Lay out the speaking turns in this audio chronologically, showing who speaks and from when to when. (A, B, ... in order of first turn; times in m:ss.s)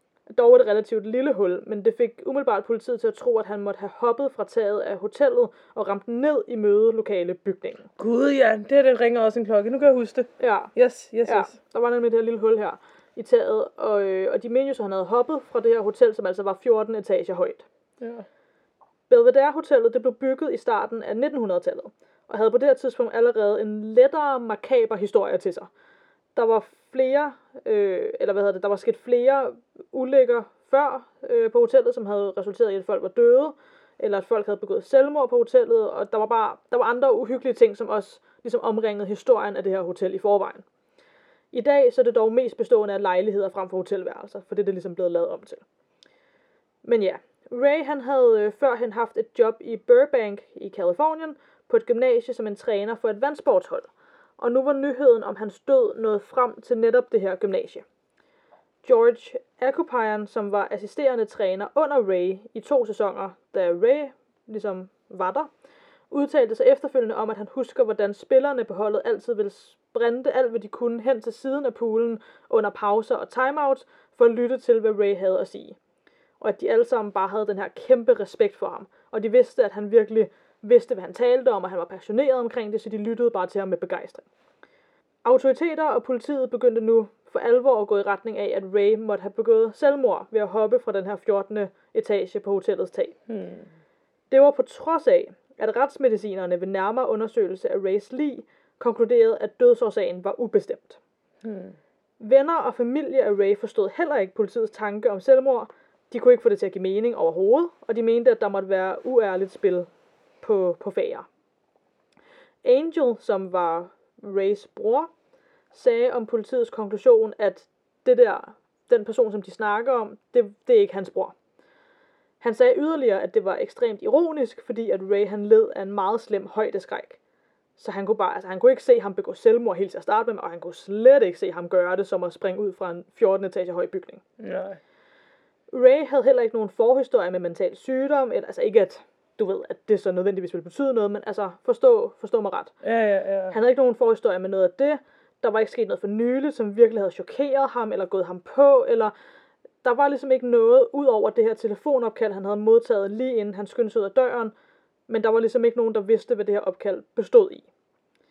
0:00.3-0:07.9 A
0:08.0-0:11.6 B
0:10.4-0:17.6 A
0:18.0-0:18.3 B
0:19.1-0:25.7 A
0:26.4-0:40.6 A
0:41.5-0:45.6 A
0:46.8-0:57.8 A
0:58.8-1:05.5 A
1:06.1-1:15.8 A
1:16.4-1:24.3 A
1:25.2-1:33.2 A
1:33.3-1:33.7 B
1:34.3-1:41.0 A
1:41.4-1:41.8 B
1:42.2-1:49.9 A
1:50.4-1:51.3 A
1:52.6-1:55.1 A
1:55.7-2:01.3 A
2:02.4-2:07.2 A
2:07.8-2:14.2 A
2:14.4-2:14.8 B
2:15.7-2:22.7 A
2:22.8-2:23.6 B
2:23.5-2:29.1 A
2:29.8-2:34.5 A
2:35.1-2:37.7 A